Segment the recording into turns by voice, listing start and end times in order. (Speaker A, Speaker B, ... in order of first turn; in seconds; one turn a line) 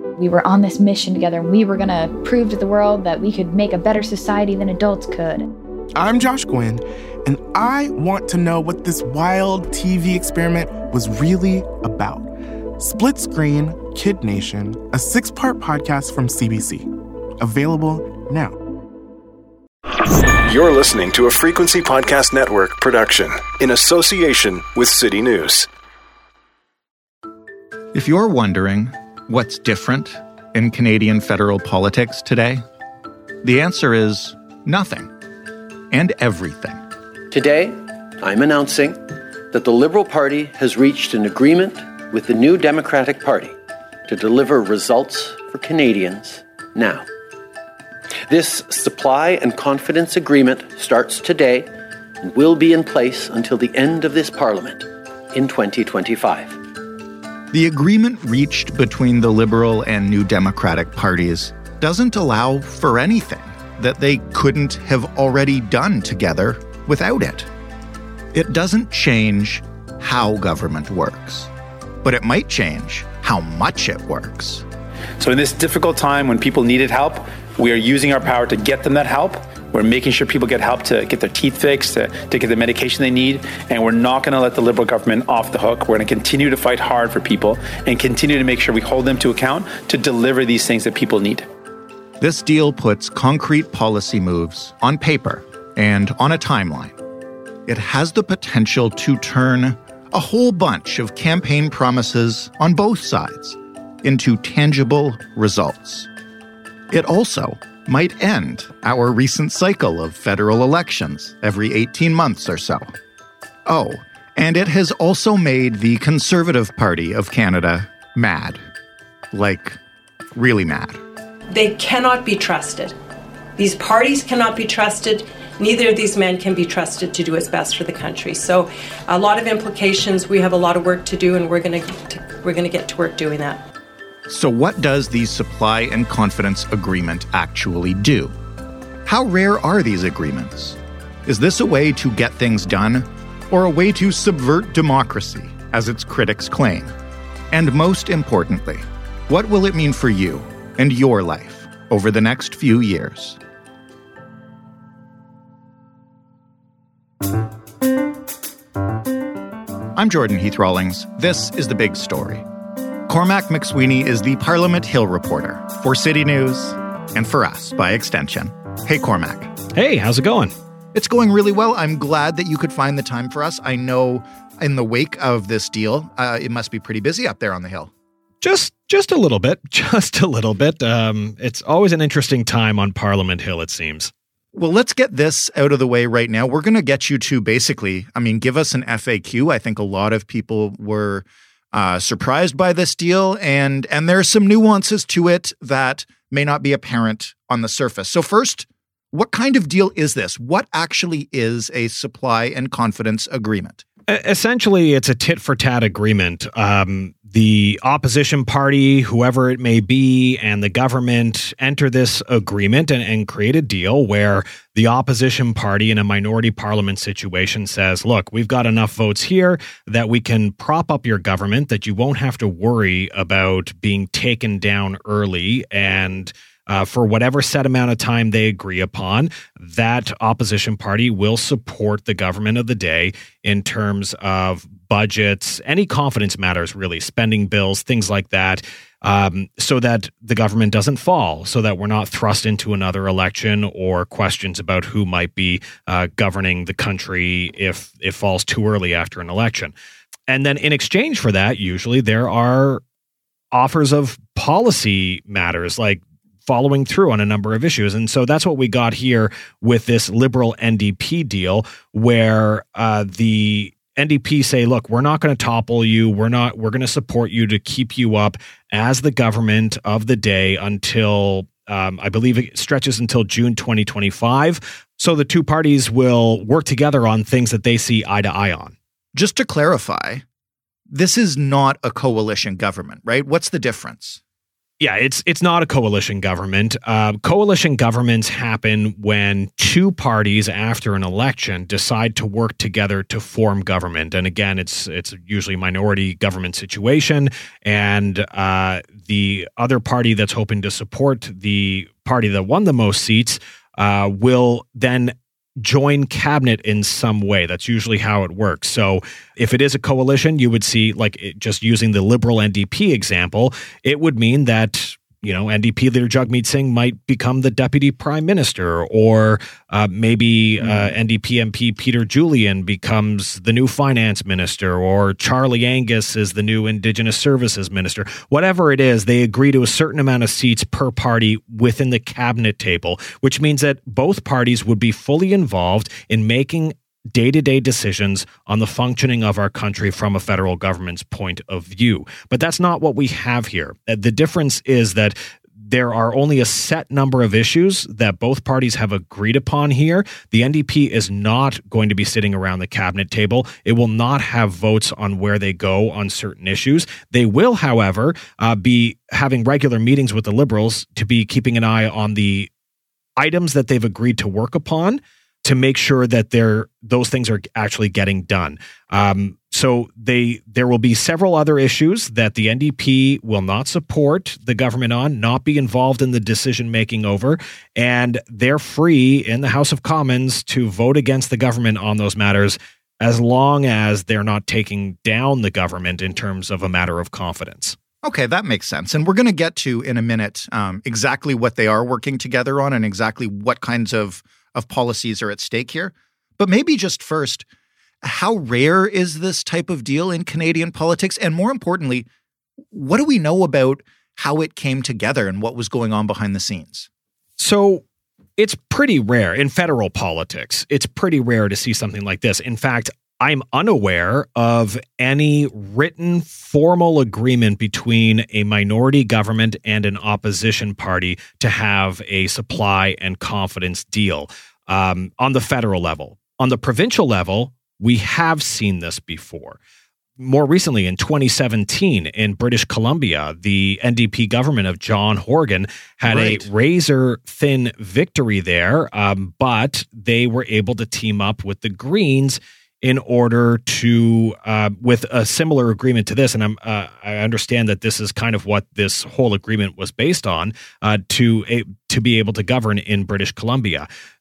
Speaker A: 0.2-5.5
Speaker B: 6.0-18.6
Speaker C: 20.0-25.7
Speaker D: 27.9-32.6
Speaker D: 33.4-35.1
Speaker D: 35.9-36.8
Speaker E: 37.3-43.5
Speaker E: 44.1-47.0
Speaker E: 48.3-56.6
Speaker D: 57.5-67.5
Speaker D: 68.3-71.5
Speaker D: 72.0-74.6
Speaker F: 75.2-91.5
Speaker D: 92.2-97.0
Speaker D: 97.7-106.1
Speaker D: 106.9-112.9
Speaker D: 113.7-118.6
Speaker D: 119.3-119.8
Speaker D: 120.3-121.0
Speaker G: 121.5-123.0
Speaker G: 123.5-133.6
Speaker D: 134.3-138.3
Speaker D: 139.1-146.9
Speaker D: 147.5-153.4
Speaker D: 159.9-162.4
Speaker D: 163.1-169.5
Speaker H: 169.7-170.5
Speaker D: 170.9-177.9
Speaker H: 178.4-184.1
Speaker D: 184.5-203.8
Speaker H: 204.1-249.7
Speaker H: 250.3-252.8
Speaker H: 253.5-278.7
Speaker D: 279.1-280.2
Speaker D: 280.9-284.2
Speaker H: 284.8-362.5
Speaker D: 320.6-320.9
Speaker H: 363.2-387.8
Speaker D: 388.0-397.4
Speaker D: 398.0-402.1
Speaker D: 402.7-406.9
Speaker H: 407.4-407.8
Speaker H: 408.4-429.6
Speaker H: 430.2-453.9
Speaker D: 436.0-436.5